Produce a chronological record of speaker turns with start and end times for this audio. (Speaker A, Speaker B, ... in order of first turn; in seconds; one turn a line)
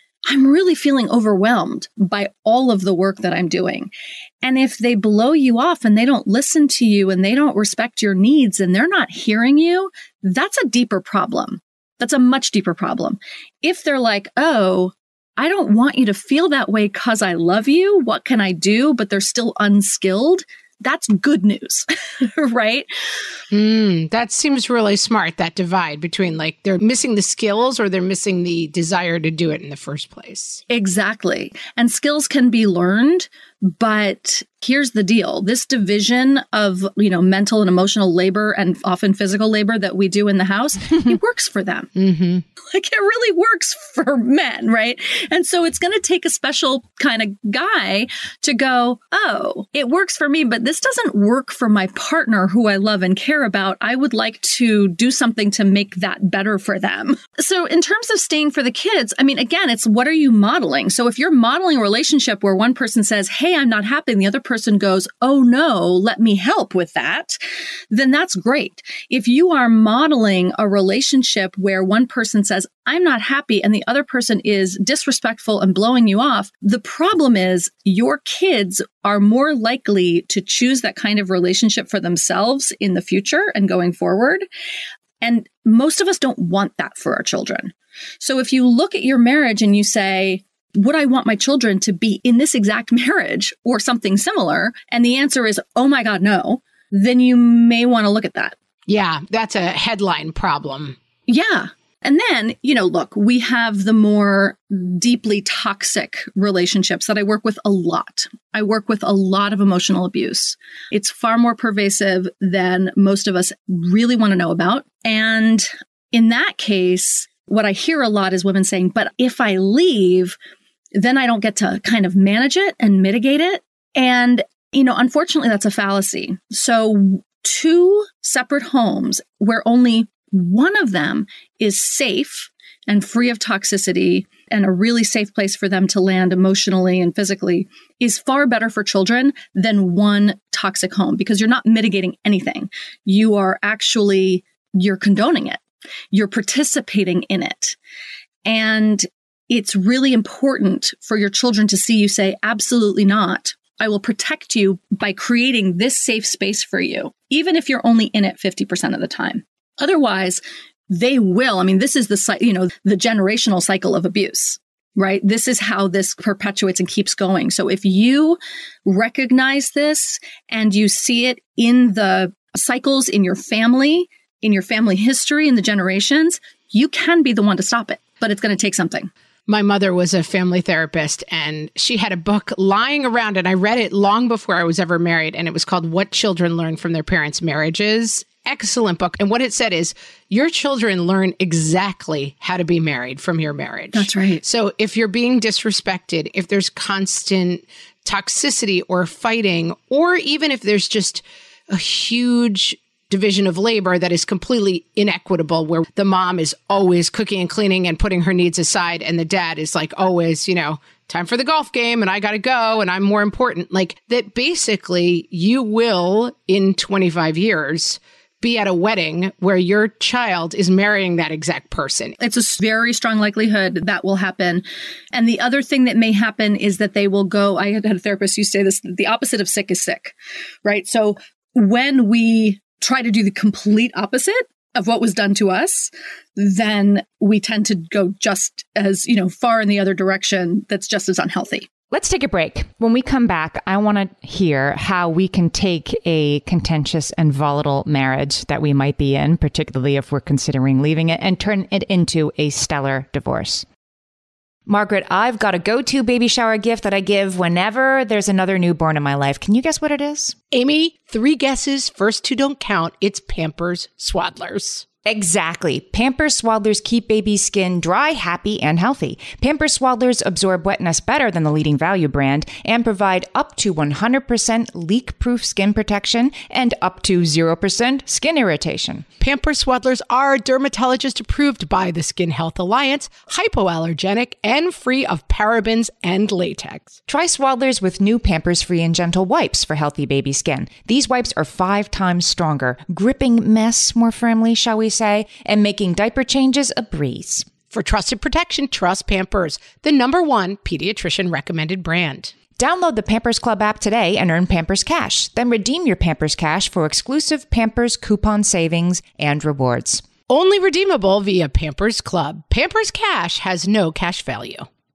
Speaker A: 0.2-3.9
Speaker A: 4.4-22.9
Speaker B: 23.5-30.6
Speaker A: 30.7-41.9
Speaker B: 42.0-42.4
Speaker A: 42.6-67.4
Speaker A: 67.9-84.4
Speaker A: 85.2-98.5
Speaker B: 98.9-101.0
Speaker A: 101.3-120.4
Speaker A: 120.9-145.6
Speaker A: 146.1-147.8
Speaker A: 148.4-179.1
Speaker B: 179.5-222.2
Speaker A: 193.9-194.4
Speaker A: 222.2-230.1
Speaker A: 230.6-241.7
Speaker C: 241.9-253.7
Speaker C: 254.7-260.4
Speaker B: 260.5-264.8
Speaker C: 265.0-279.1
Speaker B: 279.2-286.9
Speaker C: 287.1-297.5
Speaker B: 297.7-302.3
Speaker C: 302.6-310.0
Speaker B: 310.3-314.7